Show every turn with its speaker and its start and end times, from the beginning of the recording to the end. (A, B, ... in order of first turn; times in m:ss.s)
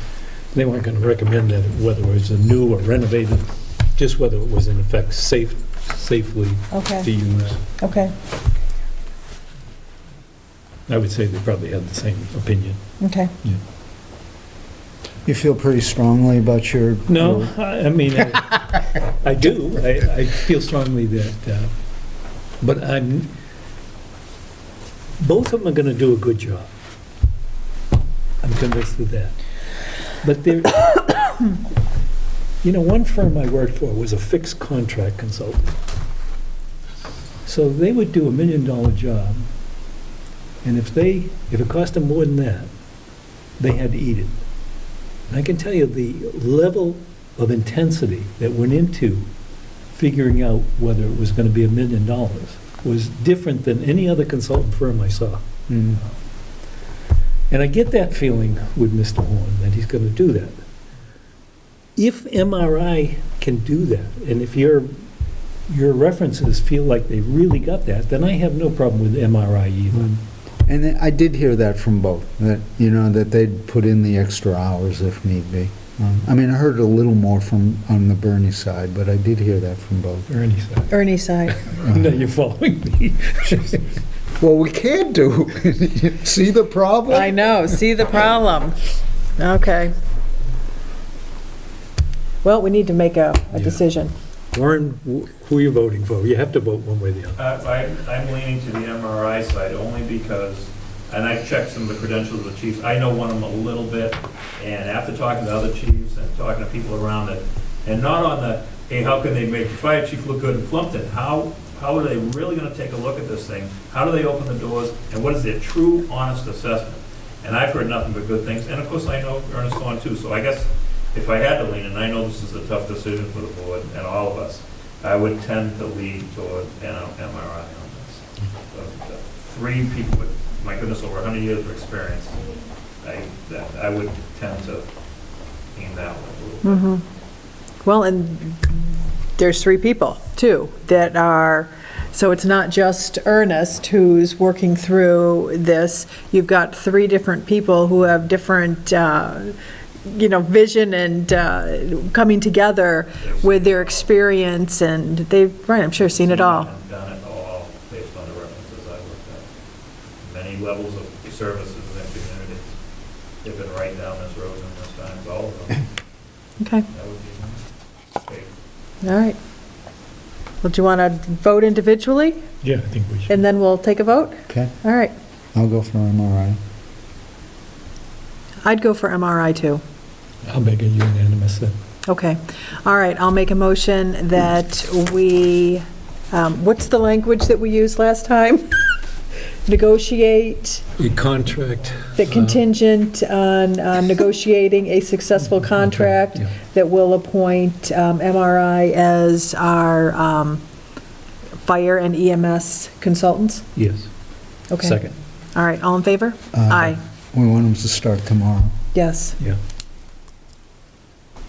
0:00.5-0:07.6 A
0:06.7-0:07.1 B
0:07.8-0:08.1 B
0:10.9-0:12.8 A
0:13.0-0:13.3 B
0:15.2-0:17.5 C
0:17.1-0:21.7 A
0:22.6-0:23.3 A
0:25.2-0:26.7 A
0:28.4-0:29.4 A
0:30.2-0:31.6 A
0:32.6-0:35.7 A
0:37.4-0:39.4 A
0:40.6-0:42.7 A
0:43.6-0:44.3 A
0:45.3-0:49.2 A
0:49.9-0:55.4 A
0:55.7-0:56.0 C
0:57.5-1:00.6 A
1:02.0-1:04.9 A
1:05.7-1:10.2 A
1:10.7-1:20.3 C
1:20.3-1:23.9 A
1:20.9-1:21.6 B
1:24.4-1:27.4 C
1:27.1-1:28.8 B
1:29.4-1:29.9 B
1:32.4-1:34.1 B
1:33.5-1:33.9 A
1:34.5-1:37.4 A
1:37.4-2:14.9 D
2:15.7-2:17.0 D
2:16.6-2:17.0 B
2:17.8-2:18.8 B
2:19.4-2:36.7 B
2:33.2-2:34.1 D
2:36.0-2:39.5 D
2:40.2-2:42.7 D
2:43.4-2:45.9 D
2:46.6-2:46.8 B
2:46.9-2:47.6 D
2:48.2-2:48.5 D
2:49.0-2:49.4 B
2:50.6-2:52.4 B
2:52.6-2:53.4 A
2:53.3-2:55.1 B
2:54.5-2:54.7 C
2:55.5-2:56.6 C
2:58.6-2:59.8 B
3:00.4-3:01.7 A
3:02.0-3:08.7 B
3:09.7-3:10.8 B
3:11.0-3:12.6 A
3:12.2-3:20.6 B
3:15.7-3:16.5 A
3:21.7-3:23.7 B
3:23.7-3:24.1 A
3:24.7-3:25.0 B
3:24.8-3:25.2 A
3:25.5-3:27.0 B
3:26.5-3:28.7 C
3:28.9-3:29.4 B